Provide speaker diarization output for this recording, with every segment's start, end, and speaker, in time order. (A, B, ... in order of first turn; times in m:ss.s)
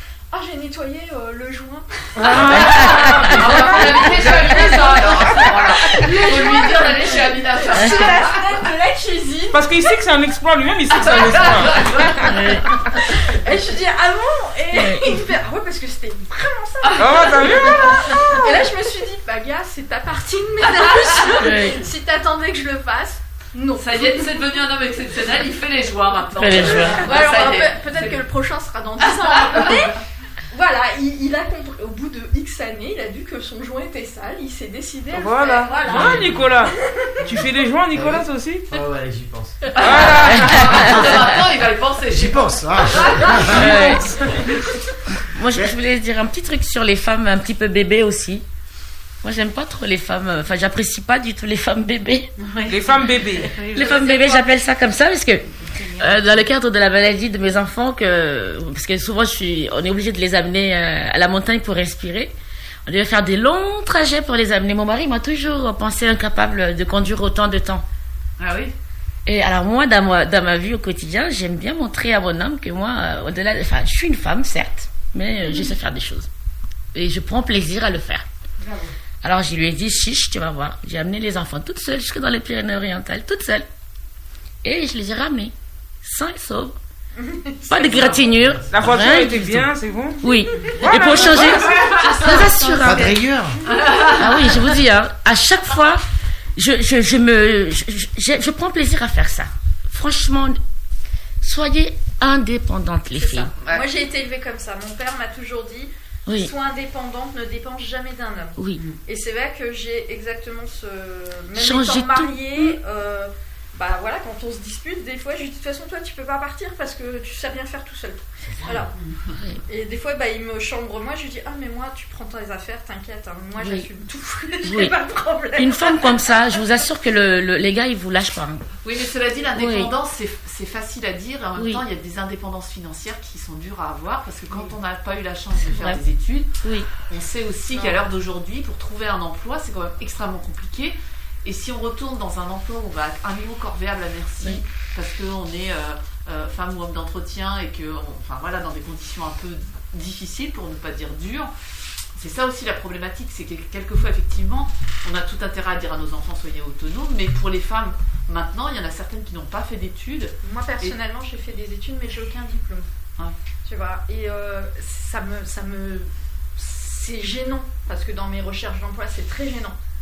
0:00.3-0:10.0 A
0:02.2-0:03.4 B
0:02.2-0:03.3 C
0:02.6-0:08.4 D
0:09.5-0:11.9 C
0:10.9-0:24.5 A
0:11.0-0:12.4 D
0:14.7-0:15.1 B
0:17.0-0:18.1 C
0:21.4-0:21.8 B
0:23.8-0:28.2 D
0:26.4-0:27.0 B
0:26.9-0:30.0 A
0:29.0-0:29.8 D
0:30.5-0:37.4 A
0:35.1-0:38.8 C
0:37.9-0:39.7 E
0:39.8-0:40.9 C
0:39.8-0:43.7 D
0:40.3-0:41.0 B
0:40.9-0:41.3 E
0:42.1-0:43.7 E
0:43.5-0:44.1 B
0:45.3-0:48.4 B
0:49.2-0:52.3 B
0:52.7-0:53.6 C
0:53.5-0:54.3 D
0:53.7-1:02.3 B
1:02.8-1:07.8 B
1:08.4-1:08.7 D
1:09.2-1:16.3 B
1:16.9-1:18.2 B
1:19.2-1:23.6 B
1:24.6-1:26.8 B
1:27.2-1:28.2 A
1:27.7-1:29.7 B
1:28.7-1:32.0 C
1:30.2-1:33.1 B
1:32.8-1:33.6 E
1:33.7-1:34.4 D
1:34.2-1:36.0 B
1:36.6-1:40.6 B
1:41.4-1:43.5 B
1:43.2-1:58.9 A
1:43.6-1:43.9 D
1:51.6-1:52.8 B
1:59.6-2:06.8 A
2:03.6-2:03.8 B
2:04.6-2:04.9 B
2:05.6-2:08.6 B
2:08.8-2:31.5 D
2:09.5-2:09.9 B
2:11.6-2:11.8 B
2:15.6-2:16.0 B
2:16.6-2:16.9 B
2:17.7-2:18.0 A
2:32.2-2:40.9 D
2:40.4-2:42.9 A
2:43.6-2:49.8 A